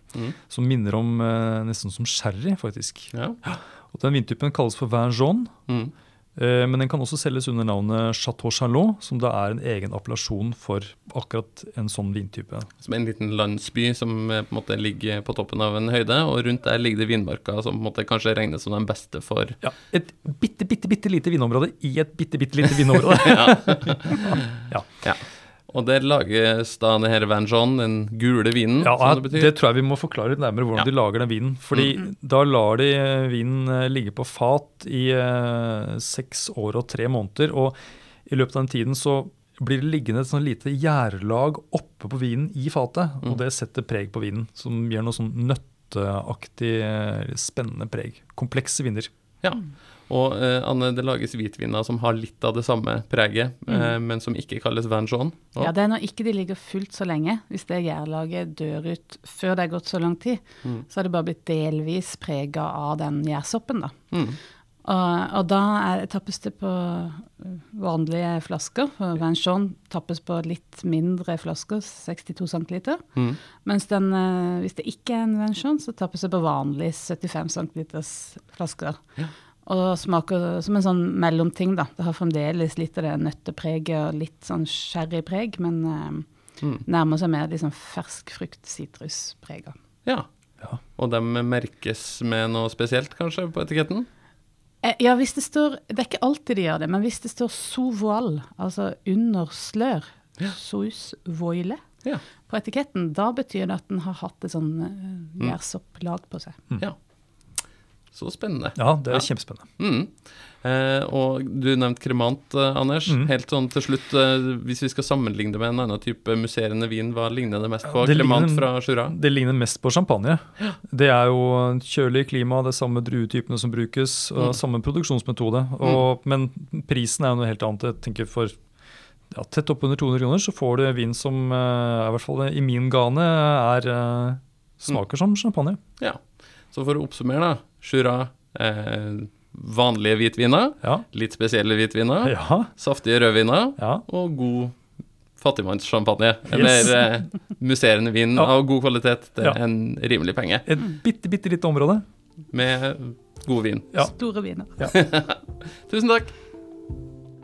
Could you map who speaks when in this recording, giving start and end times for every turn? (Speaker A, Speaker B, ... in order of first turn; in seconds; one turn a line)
Speaker A: 0.5-3.1
Speaker B: 3.1-3.4
Speaker A: 3.9-5.5
Speaker B: 5.7-5.9
Speaker A: 6.3-12.7
Speaker B: 12.8-19.6
Speaker A: 19.6-24.9
Speaker B: 23.2-24.3
Speaker B: 25.0-29.5
Speaker A: 28.8-37.8
Speaker B: 31.7-32.0
Speaker A: 38.3-49.1
Speaker B: 49.4-55.7
Speaker C: 55.6-64.0
Speaker B: 64.1-64.4
Speaker C: 64.8-79.1
Speaker C: 79.7-86.3
Speaker C: 86.8-89.8
Speaker B: 90.8-94.1
Speaker C: 94.8-101.8
Speaker C: 102.5-106.6
Speaker B: 108.1-109.3
Speaker A: 108.8-109.7
Speaker B: 109.8-119.2
Speaker A: 117.9-128.5
Speaker A: 129.3-135.8
Speaker B: 136.0-144.8
Speaker A: 142.2-142.7
Speaker A: 143.8-144.0
Speaker B: 145.4-150.7
Speaker A: 146.5-146.9
Speaker A: 150.7-152.0
Speaker B: 152.5-153.9
Speaker C: 154.0-154.8
Speaker B: 154.9-156.3